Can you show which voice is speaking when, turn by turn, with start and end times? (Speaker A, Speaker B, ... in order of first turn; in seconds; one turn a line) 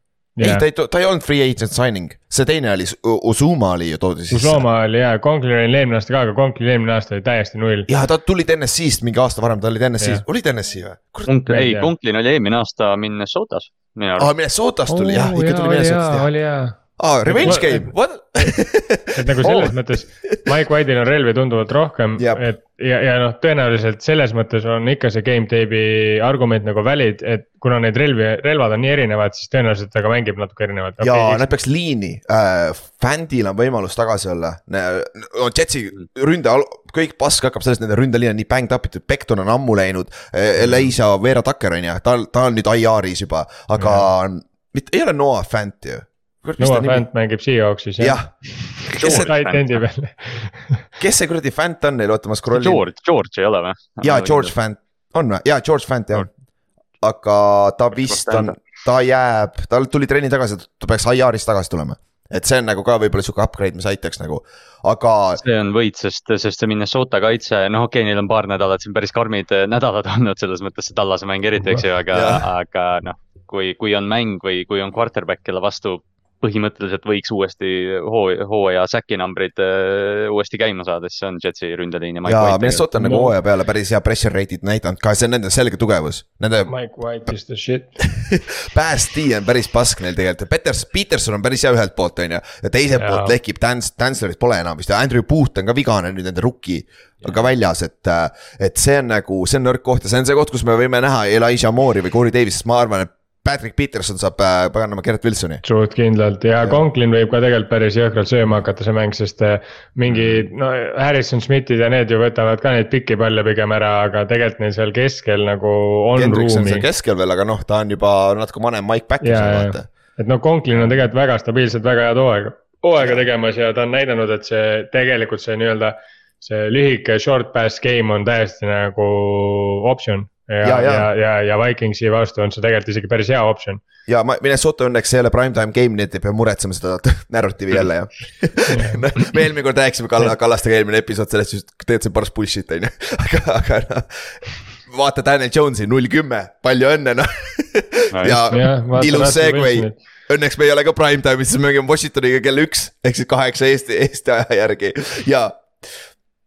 Speaker A: 0.4-0.7
Speaker B: 0.4-4.7
Speaker A: 4.3-7.9
Speaker B: 7.9-11.3
Speaker C: 11.3-14.3
Speaker A: 11.5-11.9
Speaker B: 14.2-16.3
Speaker A: 14.9-17.9
Speaker B: 17.0-20.4
Speaker A: 19.1-31.5
Speaker B: 22.2-22.4
Speaker B: 31.0-47.0
Speaker A: 43.8-44.1
Speaker A: 46.6-50.8
Speaker B: 48.0-48.3
Speaker B: 48.9-49.3
Speaker C: 49.0-49.8
Speaker B: 51.0-52.8
Speaker C: 52.5-54.5
Speaker B: 54.0-56.3
Speaker B: 57.0-65.4
Speaker C: 58.0-58.5
Speaker C: 65.4-83.2
Speaker B: 72.1-72.5
Speaker B: 82.2-86.7
Speaker A: 83.0-83.3
Speaker A: 86.7-88.0
Speaker B: 88.0-105.6
Speaker A: 93.0-93.3
Speaker A: 105.6-116.9
Speaker B: 116.2-119.9
Speaker A: 119.2-133.8
Speaker B: 120.7-121.0
Speaker B: 123.0-123.2
Speaker B: 130.6-131.1
Speaker B: 134.1-156.0
Speaker A: 138.7-139.0
Speaker C: 148.1-148.6
Speaker A: 148.5-150.0